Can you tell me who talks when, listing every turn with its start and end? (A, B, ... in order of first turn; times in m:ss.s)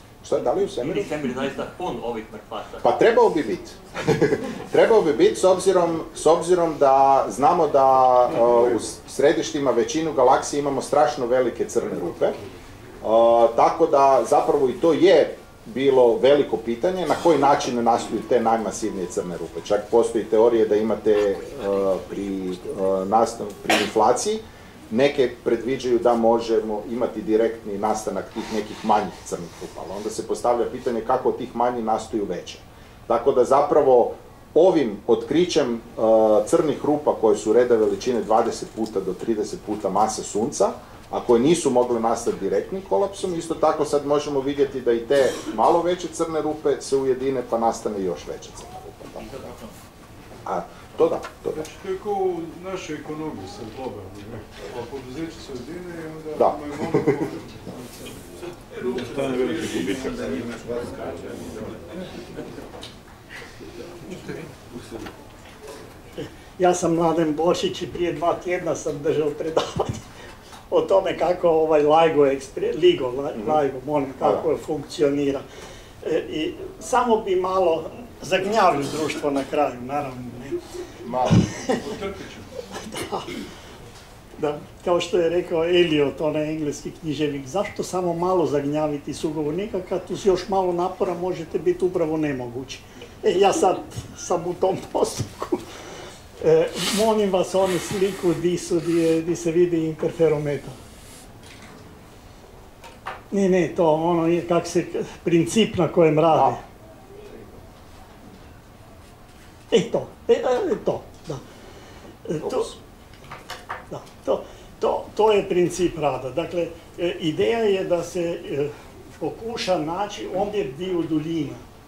0:00.2-0:01.1 A
0:00.8-0:02.9 B
0:02.8-0:12.4 A
0:13.0-0:49.5 A
0:49.2-0:49.7 B
0:50.4-0:51.7 A
0:51.5-0:58.2 C
0:56.3-0:57.0 A
1:06.2-1:10.0 D
1:10.7-1:15.4 D
1:13.3-1:13.6 A
1:14.2-1:14.5 A
1:16.0-1:20.6 D
1:21.2-1:21.8 D
1:21.8-1:22.5 C
1:22.9-1:23.3 D
1:24.4-1:35.6 D
1:36.4-1:40.7 D
1:43.3-1:46.6 D
1:46.3-1:46.6 A
1:49.7-1:51.4 D
1:52.2-1:52.7 D
1:52.4-1:52.8 A
1:53.9-2:01.6 D